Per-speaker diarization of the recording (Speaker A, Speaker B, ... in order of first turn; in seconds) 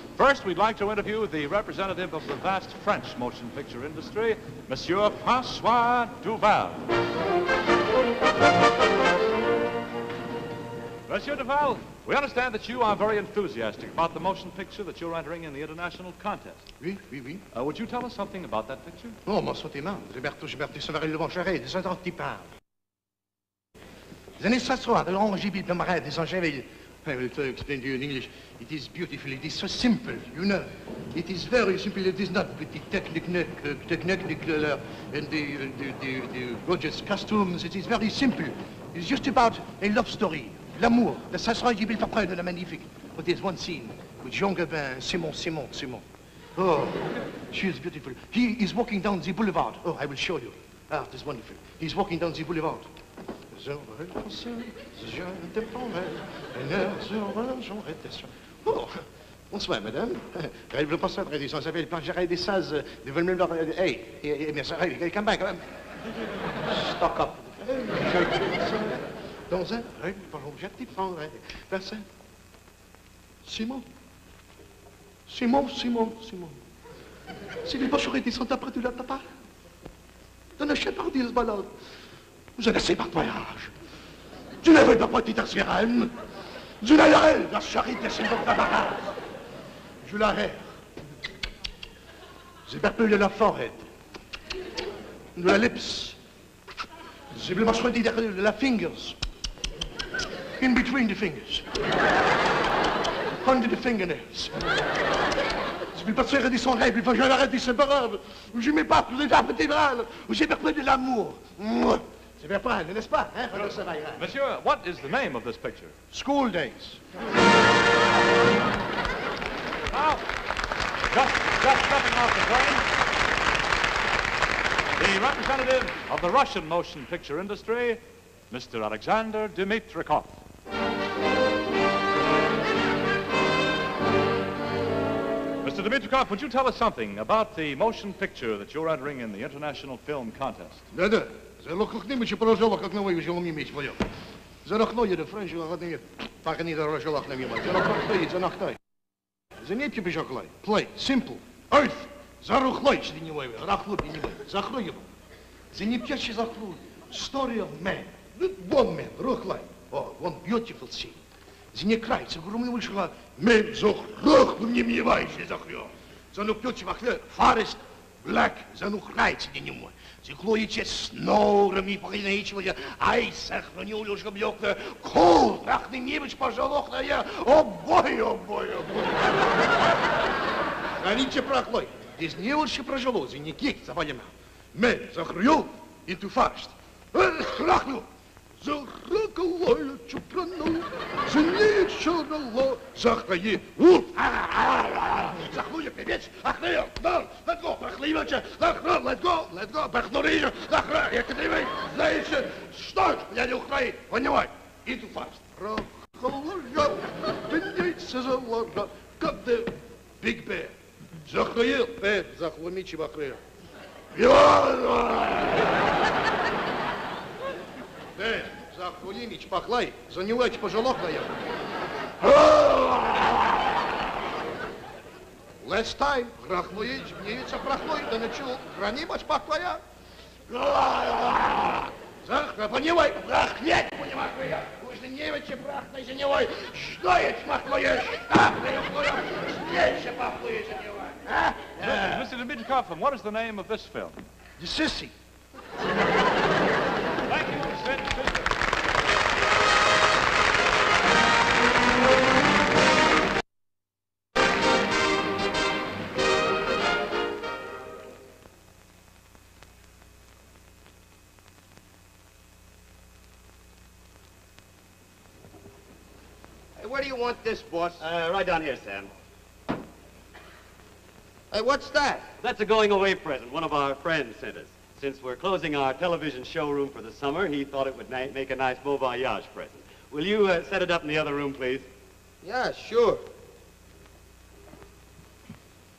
Speaker A: 0.2-6.9, 11.1-16.7, 17.5-19.2, 113.6-116.0, 119.9-120.2, 121.1-122.9, 125.0-130.4, 135.6-140.9, 241.8-244.2, 247.3-248.5
Speaker B: 16.8-17.4, 19.3-22.5, 24.4-46.0, 46.6-52.9, 53.5-65.6, 66.7-72.1, 73.4-73.9, 75.3-76.6, 77.6-79.3, 80.6-81.7, 82.6-83.7, 84.6-86.1, 86.8-89.1, 90.0-90.6, 92.7-93.8, 95.4-96.2, 97.3-99.2, 100.6-101.6, 103.4-104.6, 105.9-114.2, 116.1-117.0, 140.9-144.0, 144.6-148.8, 149.6-155.1, 155.7-161.2, 161.7-179.5, 181.0-188.1, 188.6-210.7, 211.2-213.4, 214.1-215.8, 218.2-221.4, 222.2-224.1, 225.6-229.8, 230.5-242.3, 244.6-245.1
Speaker C: 266.8-268.1, 271.5-272.3, 282.4-283.2
Speaker D: 268.0-269.1, 272.4-281.9